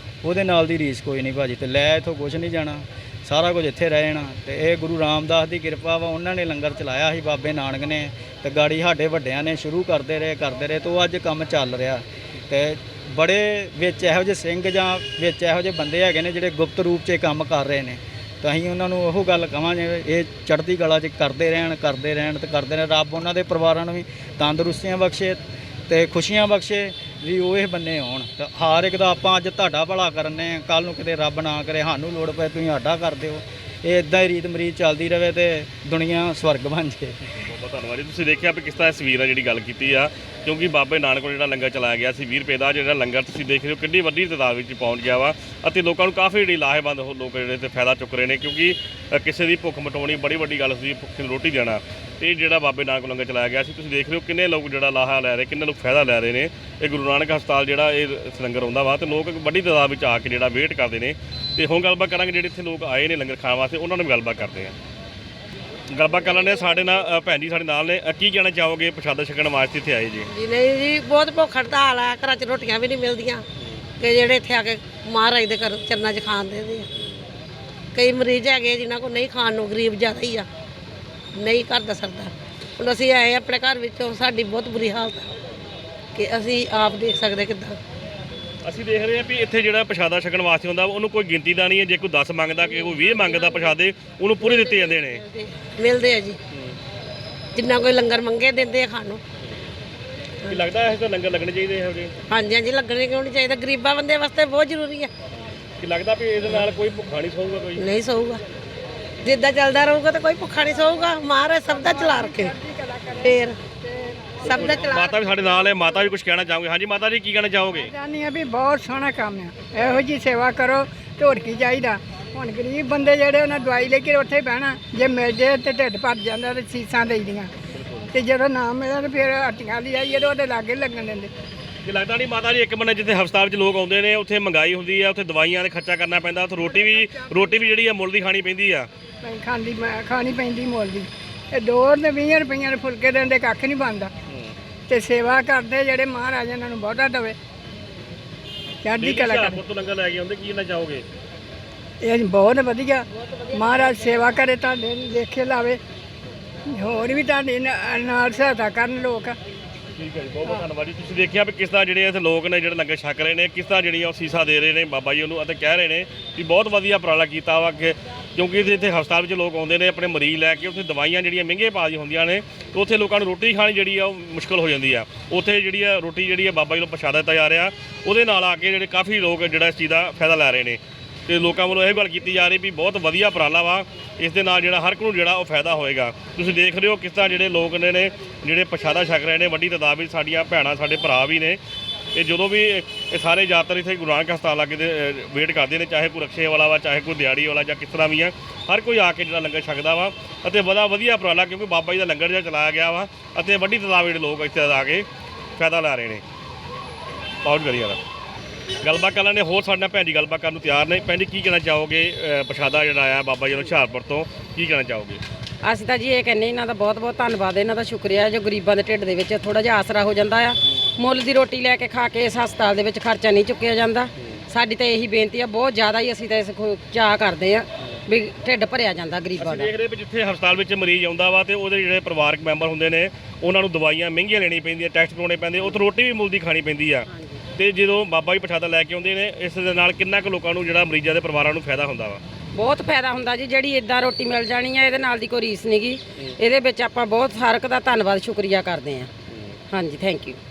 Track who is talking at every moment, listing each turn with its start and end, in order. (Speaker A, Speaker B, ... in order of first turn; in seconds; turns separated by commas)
Speaker A: 0.2-37.2, Speaker B: 37.2-64.8, Speaker B: 65.9-70.3, Speaker C: 70.3-73.5, Speaker C: 74.0-76.9, Speaker C: 77.9-80.5, Speaker C: 81.3-85.3, Speaker C: 86.2-87.8, Speaker B: 88.6-95.2, Speaker C: 92.8-93.7, Speaker C: 94.4-96.4, Speaker C: 97.5-99.2, Speaker B: 100.5-102.2, Speaker C: 102.3-105.1, Speaker B: 105.8-107.9, Speaker C: 106.4-106.8, Speaker C: 107.8-108.4, Speaker C: 109.2-112.6, Speaker D: 111.7-114.0, Speaker C: 113.2-113.6, Speaker B: 114.4-117.9, Speaker C: 114.4-115.1, Speaker D: 114.5-116.0, Speaker D: 117.8-127.5, Speaker B: 127.8-128.1, Speaker D: 128.1-131.3, Speaker B: 131.9-138.9, Speaker D: 136.6-137.6, Speaker D: 139.2-144.1, Speaker D: 144.9-147.4, Speaker D: 148.8-149.6, Speaker B: 148.9-151.1, Speaker D: 152.0-155.8, Speaker D: 156.8-159.4, Speaker B: 160.0-191.6, Speaker B: 192.2-206.2, Speaker B: 207.4-208.0, Speaker B: 208.8-215.2, Speaker E: 215.6-229.7, Speaker B: 229.4-242.2, Speaker E: 237.1-237.4, Speaker E: 242.5-249.1, Speaker B: 249.3-249.6, Speaker E: 249.7-250.4